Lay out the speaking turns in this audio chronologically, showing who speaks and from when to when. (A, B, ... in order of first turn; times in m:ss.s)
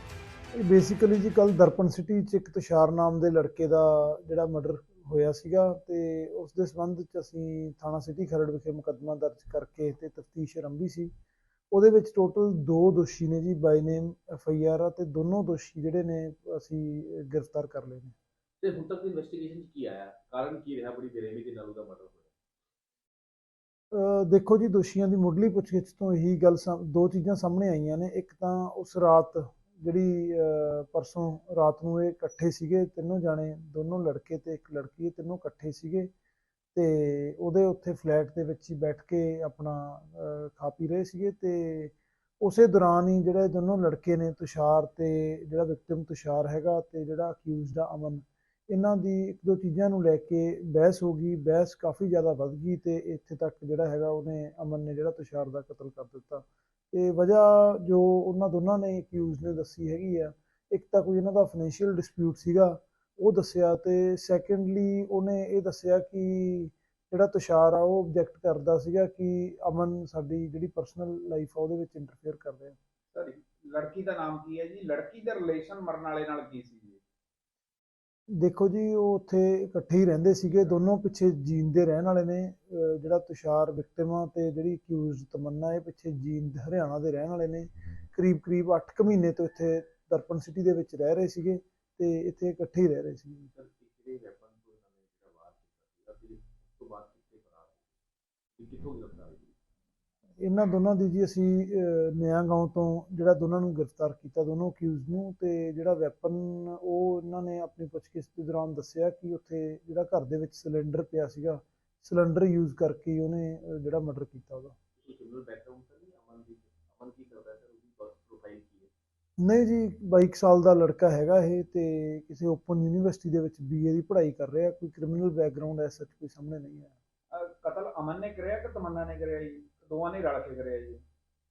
0:00.6-0:11.1 A
0:11.7-0:18.1 A
0:18.6-0:22.3 B
0:23.9-0:36.1 A
0:36.7-1:12.8 A
1:13.1-1:17.0 C
1:18.4-1:33.5 A
1:33.5-1:37.8 B
1:38.6-1:39.5 B
1:40.4-1:54.8 A
1:55.0-1:58.9 B
1:59.4-2:06.9 A
2:07.3-2:11.0 C